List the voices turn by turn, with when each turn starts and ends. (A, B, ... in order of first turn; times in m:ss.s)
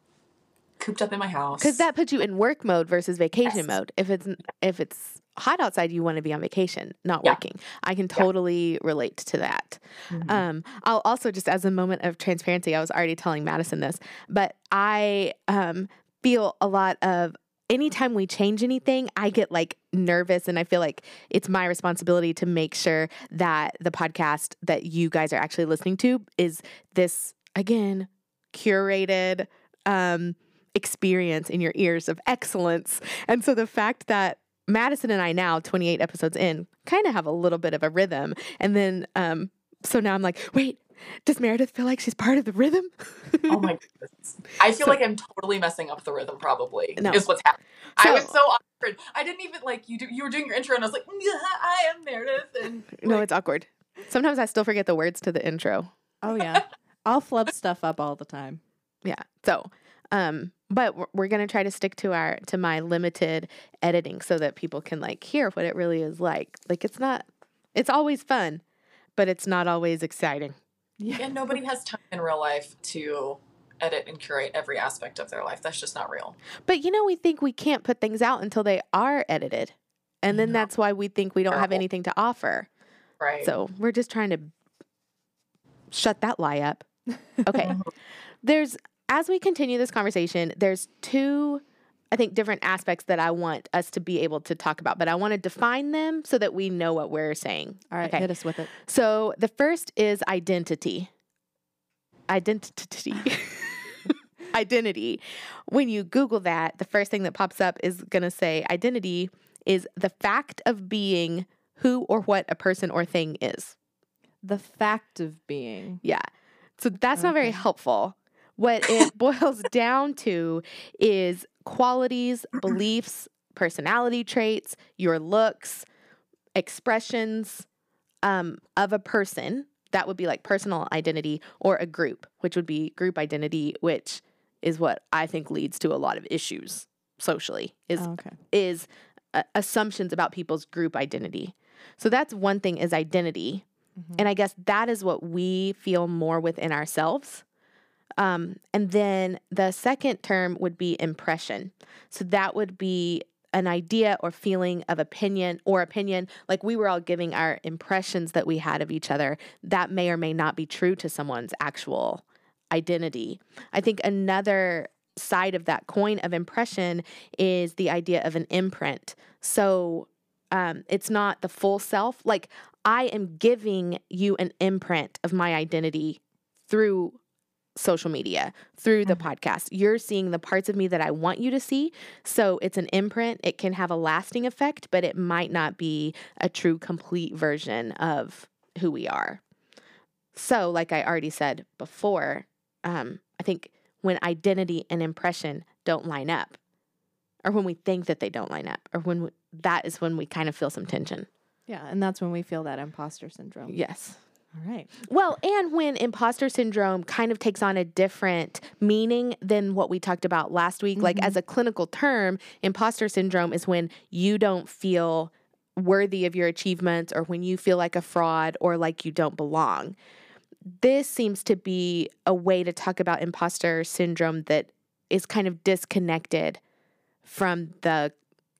0:00.8-0:01.9 A
0:01.6-0:43.7 B
0:10.1-0:10.4 A
0:43.5-0:53.3 A
0:47.0-0:47.2 B
0:48.0-0:48.3 B
0:53.0-0:55.9 B
0:56.2-0:58.6 C
0:59.0-1:08.6 B
1:09.2-1:10.6 B
1:11.0-1:11.6 C
1:11.2-1:16.4 A
1:16.7-1:22.7 B
1:20.3-1:20.6 A
1:21.5-1:21.8 A
1:23.2-1:23.5 A
1:23.4-1:24.5 B
1:25.9-1:26.9 B
1:27.4-1:27.8 B
1:27.5-1:27.8 C
1:27.6-1:27.9 A
1:28.4-1:41.1 B
1:37.9-1:38.7 C
1:42.3-1:53.8 B
1:54.4-1:56.0 C
1:56.8-2:05.8 B
1:57.2-1:57.6 C
2:06.6-2:07.7 B
2:08.2-2:23.6 B
2:18.0-2:18.4 C
2:24.2-2:27.4 B
2:28.2-2:57.2 B
2:57.8-3:09.4 B
3:10.3-3:16.6 B
3:17.4-3:21.3 B
3:21.7-3:23.8 C
3:23.7-3:24.2 B
3:24.6-3:24.9 C
3:25.0-3:40.0 B
3:31.0-3:31.4 C
3:40.7-3:46.6 B
3:47.2-3:48.1 B